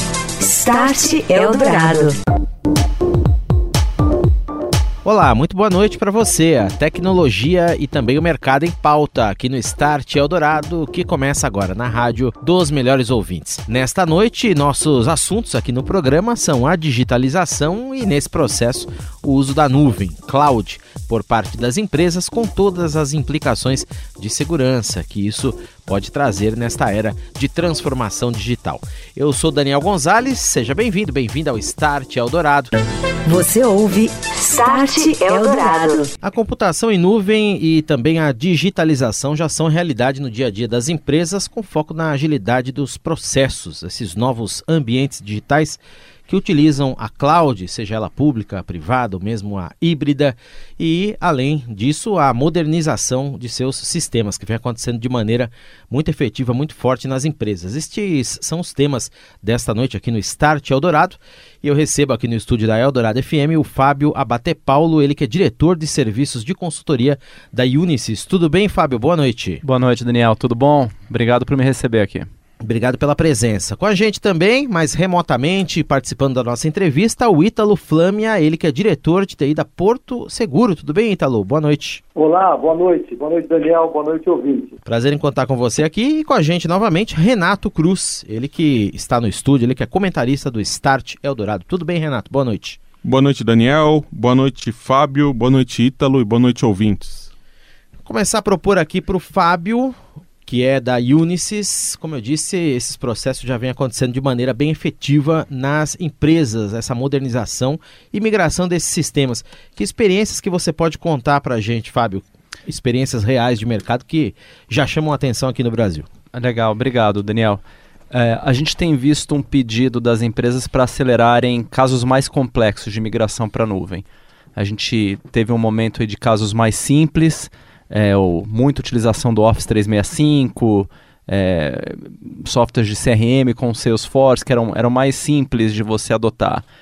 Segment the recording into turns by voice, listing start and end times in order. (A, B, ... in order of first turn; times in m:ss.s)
0:00.4-0:02.2 A
0:05.0-0:32.7 B
0:33.2-0:36.1 A
0:36.2-1:09.6 B
1:09.6-1:12.3 C
1:12.6-1:22.0 B
1:22.2-1:24.8 D
1:24.8-1:32.8 B
1:33.0-1:37.3 E
1:38.0-1:39.9 B
1:40.5-1:56.1 B
1:56.3-2:04.0 C
2:04.6-2:16.6 C